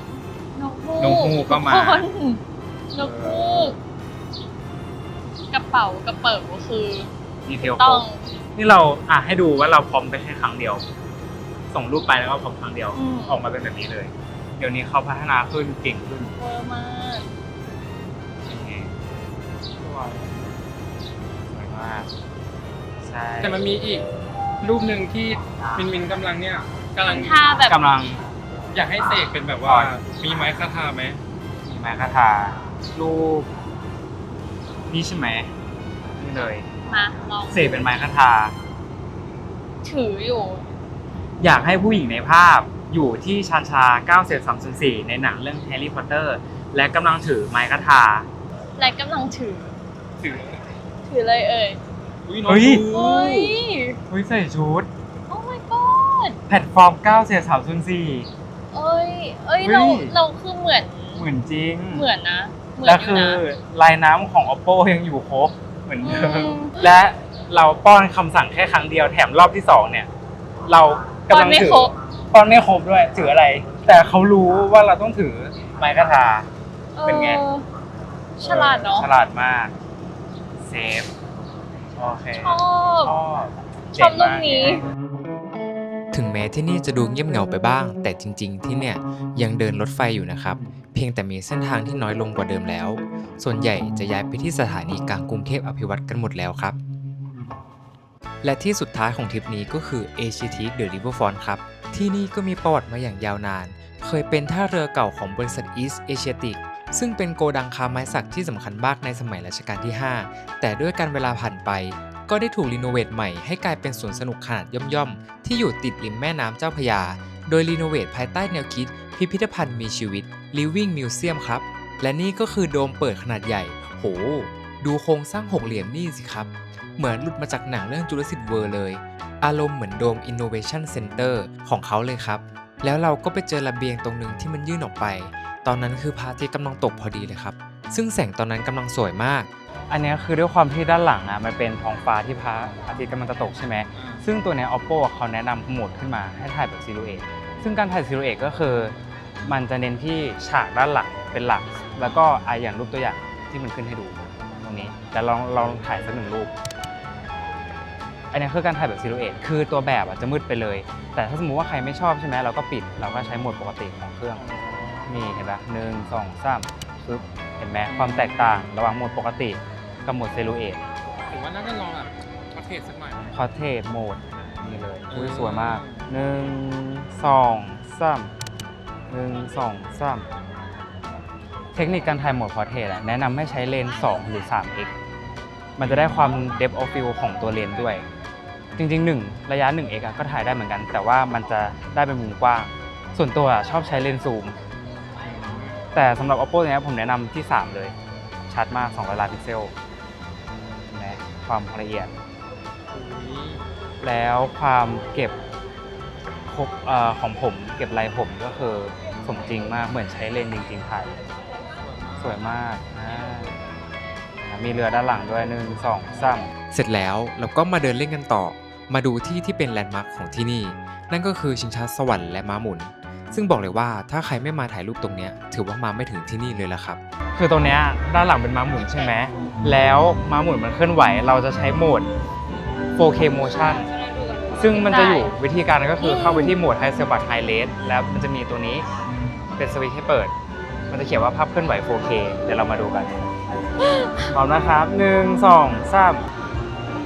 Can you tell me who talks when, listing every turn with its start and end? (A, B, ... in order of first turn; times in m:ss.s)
0:00.5-0:03.8 A
0:01.0-0:02.1 B
0:03.0-0:03.7 B
0:05.5-0:08.2 A
0:07.4-0:10.8 B
0:11.7-0:16.3 B
0:12.9-0:13.4 A
0:16.4-0:17.3 A
0:18.4-0:18.9 B
0:19.8-0:20.2 B
0:21.5-0:22.1 B
0:23.0-0:23.7 B
0:23.4-0:24.1 C
0:24.6-0:27.4 C
0:27.0-0:27.8 A
0:27.7-0:28.2 B
0:28.7-0:31.2 C
0:29.6-0:30.0 B
0:31.6-0:33.5 B
0:34.9-0:35.5 B
0:36.2-0:36.7 B
0:36.8-0:37.9 A
0:37.5-0:38.6 B
0:39.8-0:40.7 A
0:41.4-0:48.3 B
0:48.8-0:49.8 A
0:50.2-0:50.6 C
0:51.1-0:51.8 A
0:52.2-0:53.6 C
0:52.4-0:52.9 B
0:52.9-0:54.0 A
0:54.1-0:54.9 B
0:55.3-0:56.4 A
0:56.5-0:58.3 B
0:58.7-1:01.3 A
0:59.6-1:00.2 B
1:01.2-1:02.1 B
1:01.9-1:03.4 A
1:02.8-1:10.1 B
1:06.0-1:06.9 A
1:10.6-1:16.5 B
1:11.3-1:11.9 A
1:17.0-1:17.6 A
1:17.1-1:17.4 B
1:18.4-1:19.1 A
1:18.4-1:19.7 B
1:20.6-1:21.1 B
1:21.9-1:24.8 B
1:22.4-1:23.2 A
1:24.0-1:24.8 A
1:26.1-1:36.8 D
1:38.4-2:19.5 D
2:19.9-2:36.5 B
2:24.0-2:24.2 C
2:38.3-2:44.4 B
2:44.4-2:45.2 C
2:45.1-2:50.8 B
2:47.9-2:48.6 C
2:51.3-2:53.3 C
2:53.3-2:58.3 B
2:55.1-2:56.0 C
2:59.1-3:00.3 B
3:01.7-3:04.9 B
3:05.8-3:08.1 B
3:05.8-3:06.3 C
3:08.8-3:14.6 B
3:15.2-3:15.8 C
3:15.9-3:18.0 B
3:18.5-3:19.7 B
3:20.6-3:22.1 B
3:22.9-3:23.6 C
3:24.0-3:25.4 B
3:26.5-3:31.2 B
3:31.8-3:32.5 C
3:32.2-3:33.6 B
3:34.5-3:36.5 B
3:36.7-3:47.0 D
3:47.4-3:52.1 B
3:53.0-3:53.9 B
3:54.5-3:58.8 B
3:54.6-3:55.4 A
3:56.0-3:56.6 A
3:59.6-4:00.3 B
4:00.9-4:03.3 B
4:03.8-4:04.3 A
4:04.3-4:06.2 B